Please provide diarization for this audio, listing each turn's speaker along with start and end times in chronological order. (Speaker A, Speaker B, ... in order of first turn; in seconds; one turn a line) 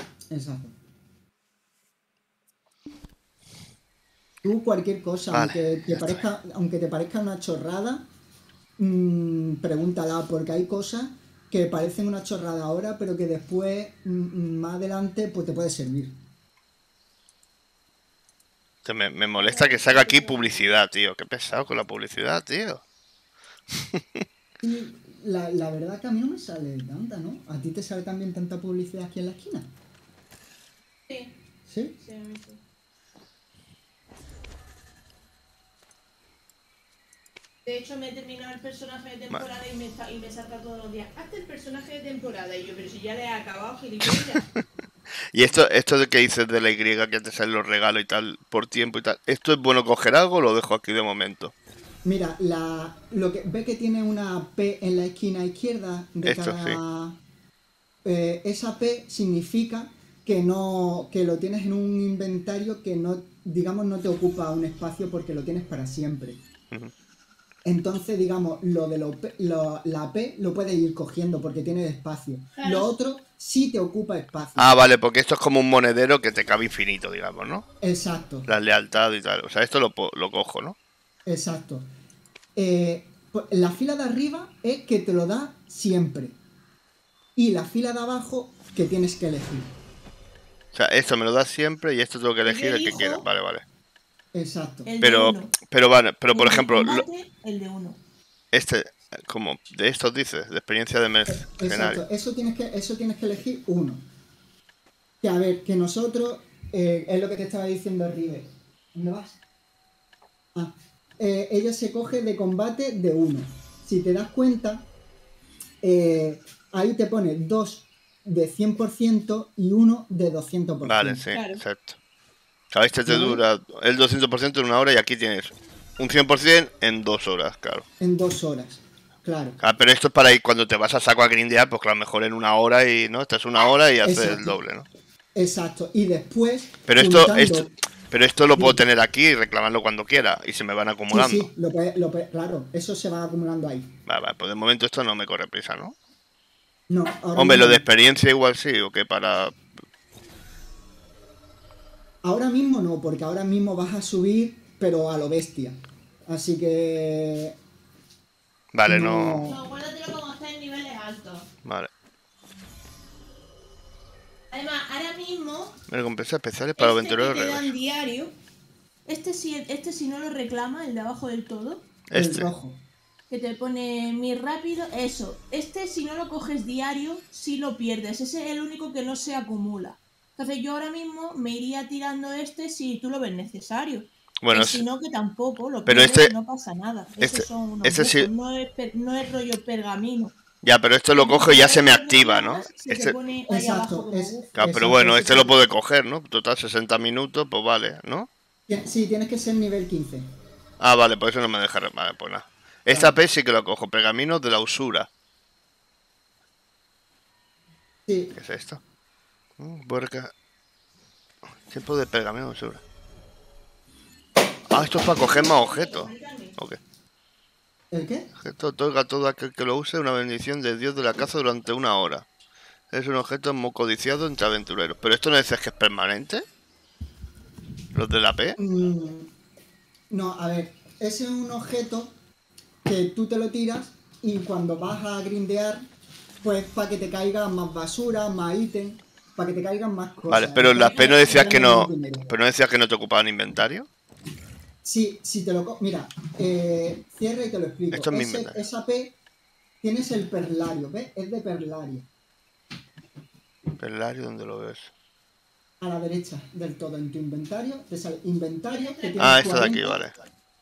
Speaker A: 0.3-0.8
Speaker A: 4.4-8.1
Speaker B: 5.3-6.2
Speaker A: 8.8-16.2
Speaker B: 18.8-22.8
Speaker C: 19.3-20.6
Speaker B: 23.8-24.2
Speaker A: 24.6-29.7
Speaker C: 31.1-31.4
Speaker A: 31.6-31.9
Speaker C: 32.0-32.6
Speaker C: 37.6-44.4
Speaker B: 45.3-51.5
Speaker A: 52.0-57.2
Speaker B: 56.2-56.8
Speaker A: 58.0-66.4
Speaker A: 67.6-74.8
Speaker C: 72.5-72.9
Speaker B: 74.6-77.6
Speaker A: 77.8-78.5
Speaker B: 78.5-80.8
Speaker A: 81.2-81.9
Speaker A: 82.5-86.4
Speaker A: 87.3-89.7
Speaker B: 90.7-93.6
Speaker C: 92.5-93.3
Speaker A: 94.3-94.9
Speaker C: 94.8-95.5
Speaker B: 95.0-97.0
Speaker C: 96.3-98.0
Speaker B: 98.5-102.0
Speaker A: 101.3-104.1
Speaker A: 105.2-109.4
Speaker A: 110.5-114.9
Speaker A: 115.8-121.2
Speaker B: 120.8-122.0
Speaker C: 121.3-121.6
Speaker B: 122.7-127.8
Speaker A: 123.0-123.4
Speaker A: 128.0-129.6
Speaker B: 129.6-134.8
Speaker A: 134.0-134.6
Speaker A: 135.3-137.7
Speaker B: 136.9-141.5
Speaker A: 138.5-138.8
Speaker A: 141.1-143.9
Speaker B: 144.1-145.9
Speaker A: 146.9-147.8
Speaker B: 147.3-149.6
Speaker A: 152.2-157.6
Speaker B: 158.7-159.4
Speaker A: 158.8-159.6
Speaker C: 159.4-161.5
Speaker B: 161.6-161.9
Speaker C: 164.5-165.8
Speaker B: 165.9-167.7
Speaker C: 166.8-168.3
Speaker C: 169.1-171.9
Speaker B: 172.1-172.5
Speaker A: 172.1-172.8
Speaker C: 173.3-190.3
Speaker B: 184.4-184.8
Speaker B: 185.8-186.3
Speaker B: 187.2-188.3
Speaker B: 190.6-193.2
Speaker C: 191.1-194.5
Speaker A: 193.5-195.6
Speaker B: 194.6-198.3
Speaker A: 198.7-200.3
Speaker B: 200.8-205.1
Speaker A: 202.9-203.2
Speaker A: 208.1-208.3
Speaker B: 208.3-208.8
Speaker B: 209.6-210.3
Speaker B: 211.7-212.8
Speaker B: 214.7-216.8
Speaker C: 215.2-216.6
Speaker A: 217.9-218.3
Speaker B: 218.4-222.2
Speaker B: 222.9-226.4
Speaker B: 227.9-228.6
Speaker A: 228.6-229.3
Speaker A: 230.1-232.2
Speaker A: 232.8-235.9
Speaker A: 236.4-242.3
Speaker B: 240.3-243.9
Speaker C: 240.7-241.4
Speaker A: 244.8-249.2
Speaker B: 247.9-248.6
Speaker A: 249.8-252.1
Speaker B: 253.8-254.9
Speaker A: 255.8-260.0
Speaker C: 258.7-259.4
Speaker B: 259.2-260.1